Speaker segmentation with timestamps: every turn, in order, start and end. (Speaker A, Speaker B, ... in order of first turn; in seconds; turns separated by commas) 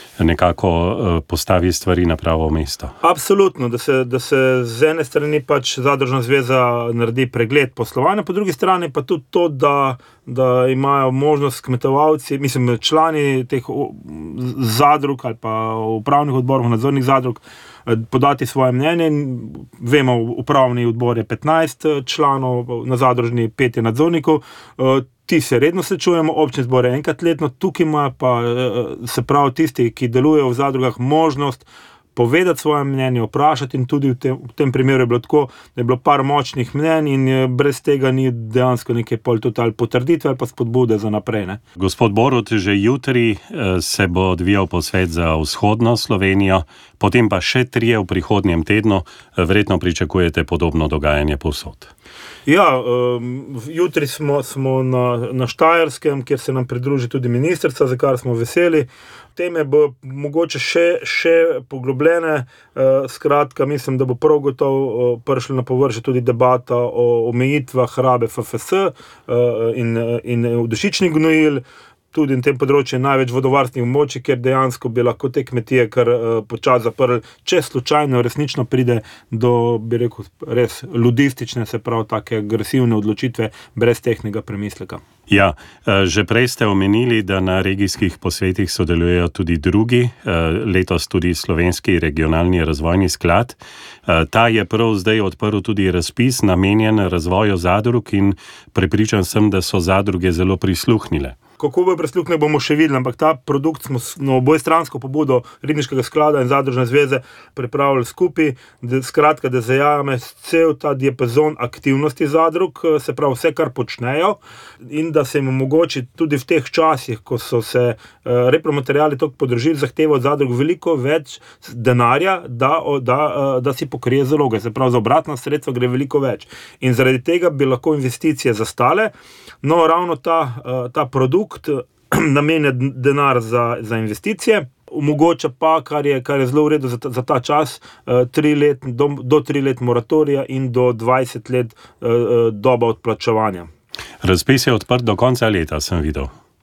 Speaker A: 0.2-2.9, Speaker B: 3.0-41.6, Speaker A: 41.8-51.9, Speaker B: 52.5-71.6, Speaker B: 72.1-85.0, Speaker A: 85.3-101.3, Speaker B: 101.6-129.1, Speaker B: 129.6-143.7, Speaker A: 144.2-146.3